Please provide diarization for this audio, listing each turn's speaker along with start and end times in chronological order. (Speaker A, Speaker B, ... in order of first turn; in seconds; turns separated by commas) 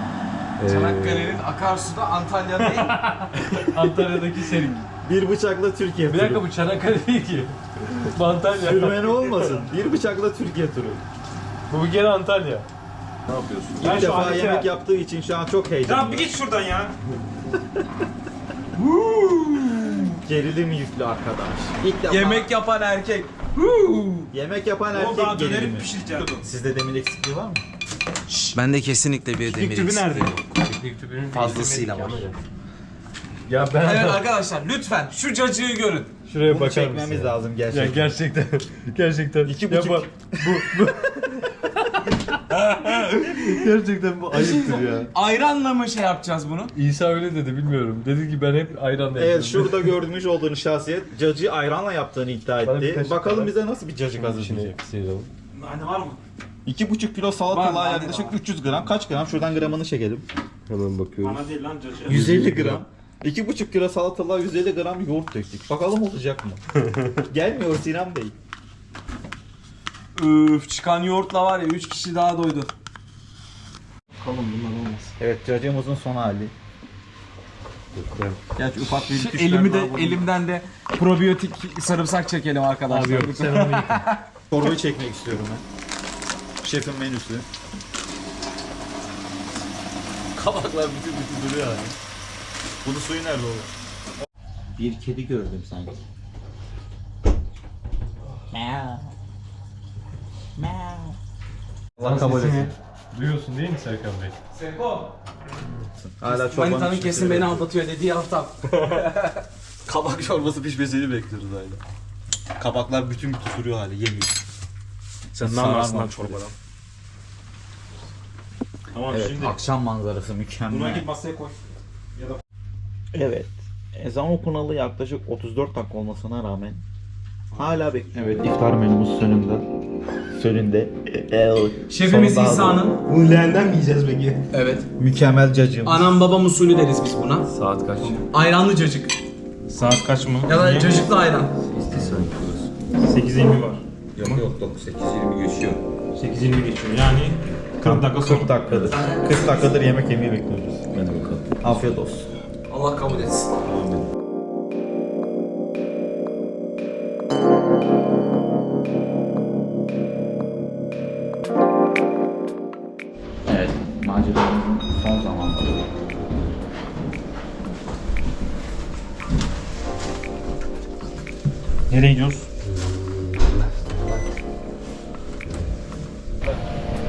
Speaker A: 0.6-1.4, Speaker B: 0.6-3.0, Speaker A: 2.6-4.8, Speaker C: 5.0-6.5, Speaker A: 6.0-9.3, Speaker C: 8.6-11.0, Speaker A: 11.7-12.7, Speaker A: 13.3-14.1, Speaker D: 13.8-14.7, Speaker C: 13.8-16.3, Speaker D: 15.8-16.9, Speaker D: 18.9-20.1, Speaker C: 20.1-22.5, Speaker B: 22.0-24.3, Speaker C: 24.3-27.6, Speaker D: 24.9-26.5, Speaker B: 28.4-30.3, Speaker D: 29.4-30.3, Speaker A: 30.3-32.4, Speaker B: 31.3-32.3, Speaker A: 33.5-34.2, Speaker B: 33.7-36.1, Speaker A: 36.2-45.1, Speaker C: 36.4-38.2, Speaker C: 39.4-41.3, Speaker B: 44.3-46.7, Speaker A: 46.7-49.9, Speaker C: 49.1-54.7, Speaker A: 52.6-53.6, Speaker A: 54.1-55.3, Speaker D: 55.5-56.2, Speaker C: 56.6-60.2, Speaker B: 57.5-58.3, Speaker D: 58.0-58.4, Speaker A: 60.7-61.4, Speaker D: 61.2-62.3, Speaker C: 62.1-66.6, Speaker A: 62.1-62.8, Speaker B: 62.1-62.8, Speaker C: 67.2-68.3, Speaker B: 70.1-72.7, Speaker B: 74.2-75.1, Speaker C: 75.2-76.5, Speaker A: 77.9-78.4, Speaker C: 78.5-80.3, Speaker B: 78.9-84.2, Speaker A: 82.9-84.0, Speaker C: 84.5-85.6, Speaker C: 86.6-87.5, Speaker A: 90.3-91.9, Speaker C: 92.8-93.7, Speaker C: 94.7-96.0, Speaker C: 98.5-99.1, Speaker C: 100.5-101.2, Speaker C: 102.0-102.7, Speaker A: 102.0-104.3, Speaker B: 104.5-105.1, Speaker C: 105.9-107.7, Speaker B: 106.2-109.4, Speaker C: 109.8-111.8, Speaker C: 112.6-114.3, Speaker C: 115.3-116.4, Speaker D: 115.3-116.5, Speaker D: 118.9-119.6, Speaker C: 119.1-121.1, Speaker D: 120.7-121.5, Speaker C: 123.1-126.8, Speaker D: 127.5-128.0, Speaker C: 127.6-129.6, Speaker C: 130.3-132.8, Speaker B: 131.9-133.1, Speaker D: 133.1-134.4, Speaker B: 134.5-134.9, Speaker C: 135.0-136.2, Speaker B: 135.8-137.5, Speaker A: 137.5-138.2, Speaker B: 138.1-139.2, Speaker D: 139.7-141.1, Speaker B: 140.4-141.5, Speaker A: 141.6-142.7, Speaker D: 143.0-144.5, Speaker C: 144.2-145.8, Speaker D: 146.2-148.5, Speaker C: 147.8-152.3, Speaker B: 148.7-149.7, Speaker B: 152.7-153.6, Speaker C: 153.7-154.0, Speaker C: 163.5-165.8, Speaker D: 171.9-172.5, Speaker A: 172.6-174.3